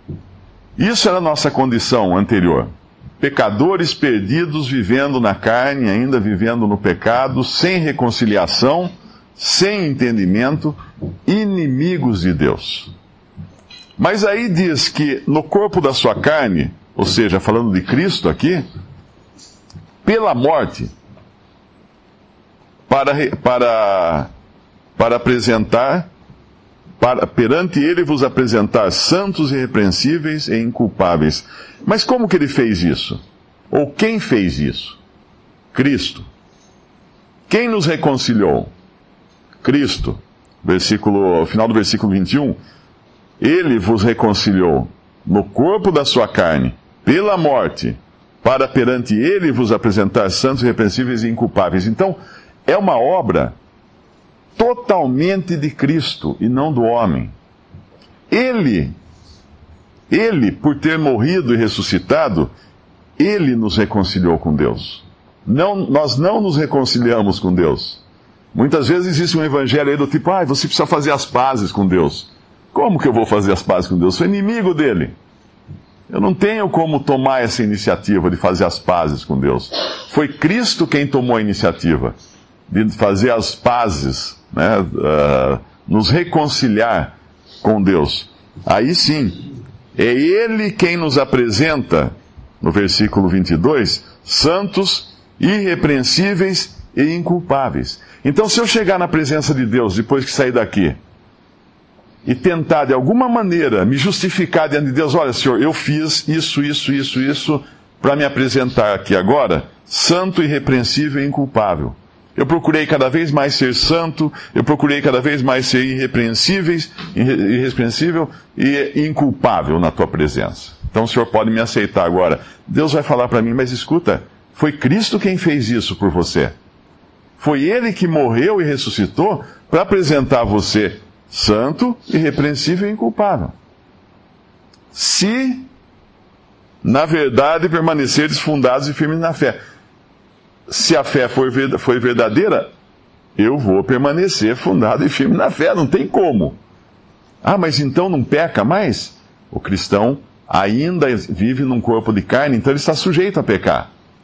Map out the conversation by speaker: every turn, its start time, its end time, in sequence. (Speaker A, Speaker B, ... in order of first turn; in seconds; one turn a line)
Speaker A: 0.8-2.7
Speaker A: 3.2-12.9
Speaker A: 14.0-18.6
Speaker A: 20.0-20.9
Speaker A: 22.9-24.3
Speaker A: 25.0-26.1
Speaker A: 27.0-33.2
Speaker A: 33.7-35.0
Speaker A: 35.7-36.3
Speaker A: 37.5-38.7
Speaker A: 39.6-42.6
Speaker A: 43.4-53.5
Speaker A: 54.5-57.3
Speaker A: 58.3-58.9
Speaker A: 60.1-62.5
Speaker A: 63.2-68.0
Speaker A: 68.5-75.1
Speaker A: 76.1-82.2
Speaker A: 82.7-89.4
Speaker A: 89.9-101.0
Speaker A: 102.2-126.5
Speaker A: 127.4-133.5
Speaker A: 134.9-135.7
Speaker A: 136.8-139.6
Speaker A: 140.7-142.7
Speaker A: 143.3-146.6
Speaker A: 147.4-153.9